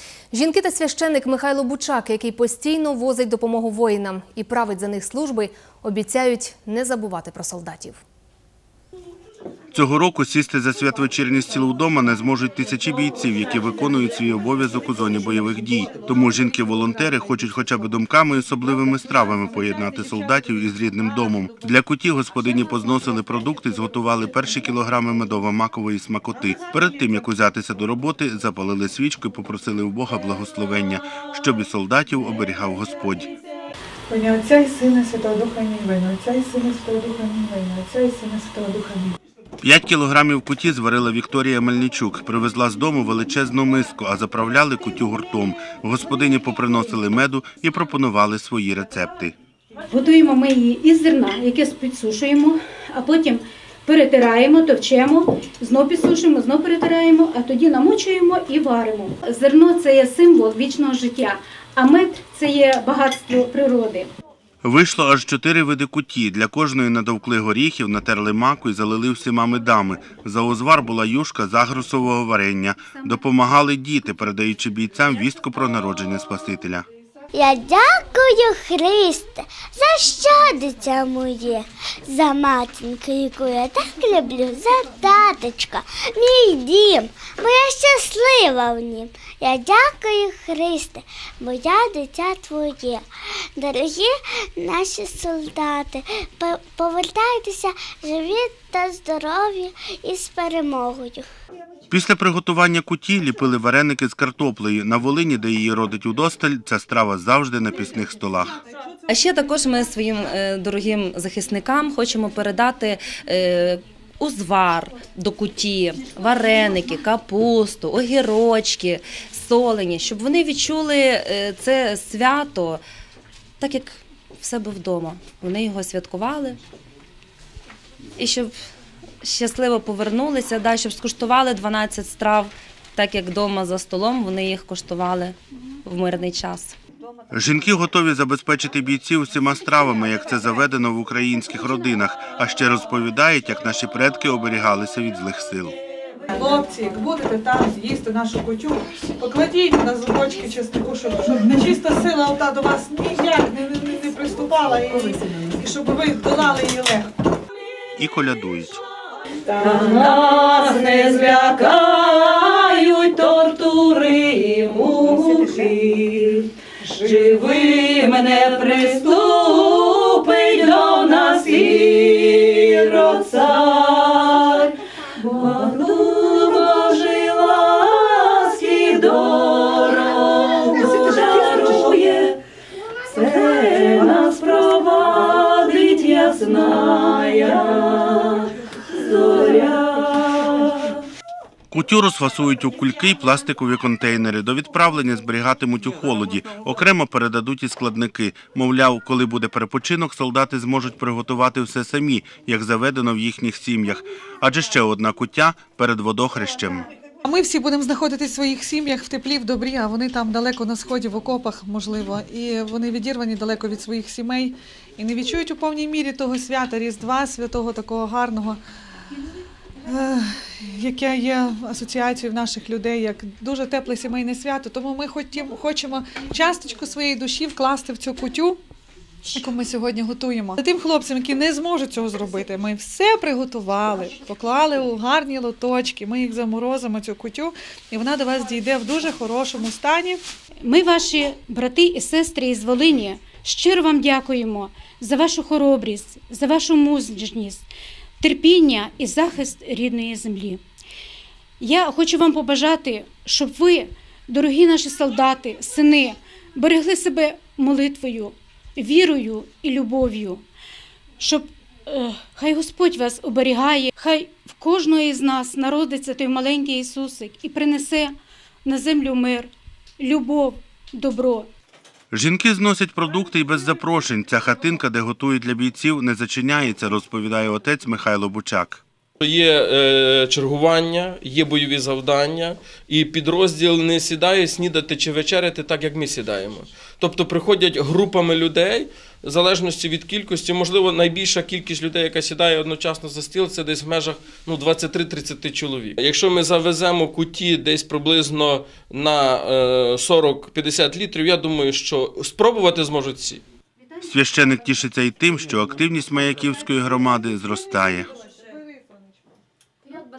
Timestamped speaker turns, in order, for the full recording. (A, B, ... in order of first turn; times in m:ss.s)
0:00.3-0:08.0 A
0:09.7-0:33.3 B
0:34.1-0:39.2 C
0:39.6-0:49.3 B
0:49.9-1:04.1 D
1:04.6-1:16.8 B
1:17.3-1:33.0 E
1:33.6-1:41.2 E
1:41.9-1:48.6 B
1:49.1-2:02.8 F
2:03.6-2:06.6 F
2:08.2-2:08.5 F
2:09.2-2:16.7 F
2:17.3-2:25.8 B
2:26.3-2:37.1 C
2:38.0-2:38.8 B
2:39.6-3:02.4 G
3:03.1-3:11.0 G
3:11.7-3:26.9 B
3:27.2-3:38.6 C
3:39.8-3:48.6 C
3:49.3-4:00.2 C
4:00.6-4:07.6 D
4:08.2-4:10.6 D
4:11.6-4:20.4 D
4:21.2-4:28.1 D
4:28.6-4:31.5 D
4:32.1-4:38.8 B
4:39.2-5:03.4 H
5:04.0-5:08.1 B
5:08.2-5:09.1 C